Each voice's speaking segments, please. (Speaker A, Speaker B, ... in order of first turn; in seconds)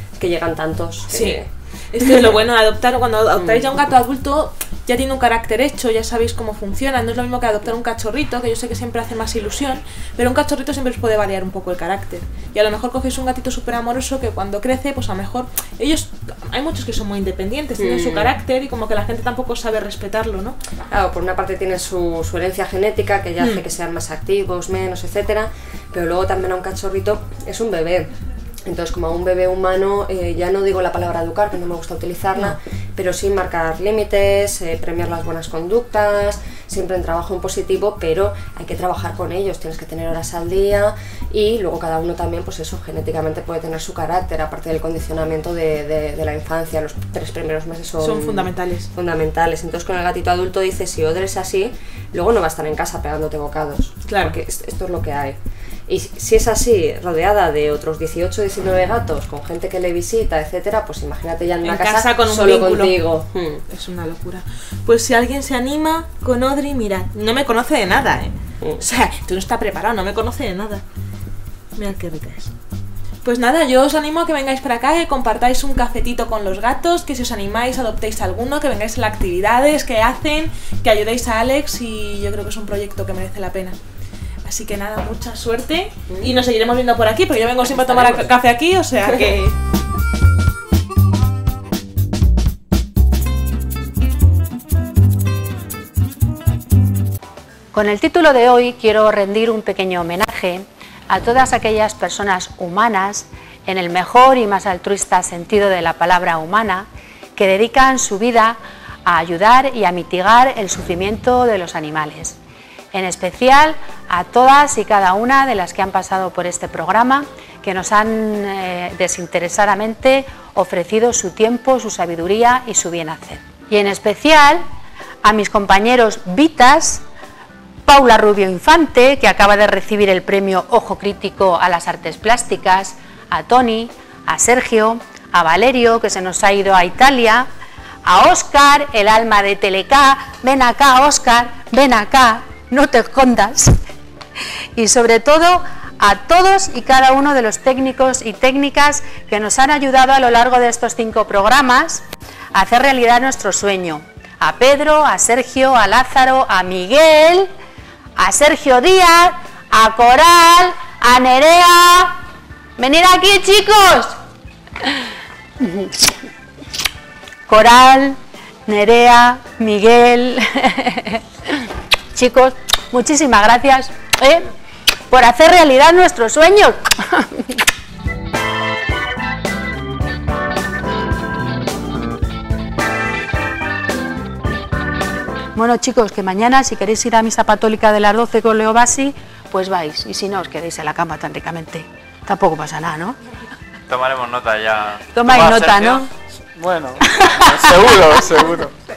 Speaker A: 0.2-2.3, 3.4-3.7, 17.8-18.4, 20.9-28.1, 28.6-55.4, 55.9-63.6, 86.1-86.3, 87.7-88.3
Speaker B: 1.1-20.6, 48.0-48.9, 54.1-54.4, 61.6-63.0, 63.7-70.8, 71.8-72.5, 73.2-83.8, 84.5-89.5
Speaker C: 97.7-112.4, 112.9-124.6, 125.2-127.0, 127.9-137.5, 138.1-143.7, 144.8-152.0, 152.5-157.5, 158.2-162.2, 162.8-164.2, 165.6-166.3, 167.5-174.5, 175.1-177.6, 185.6-193.2, 195.1-196.1, 197.2-198.4
Speaker D: 193.9-198.7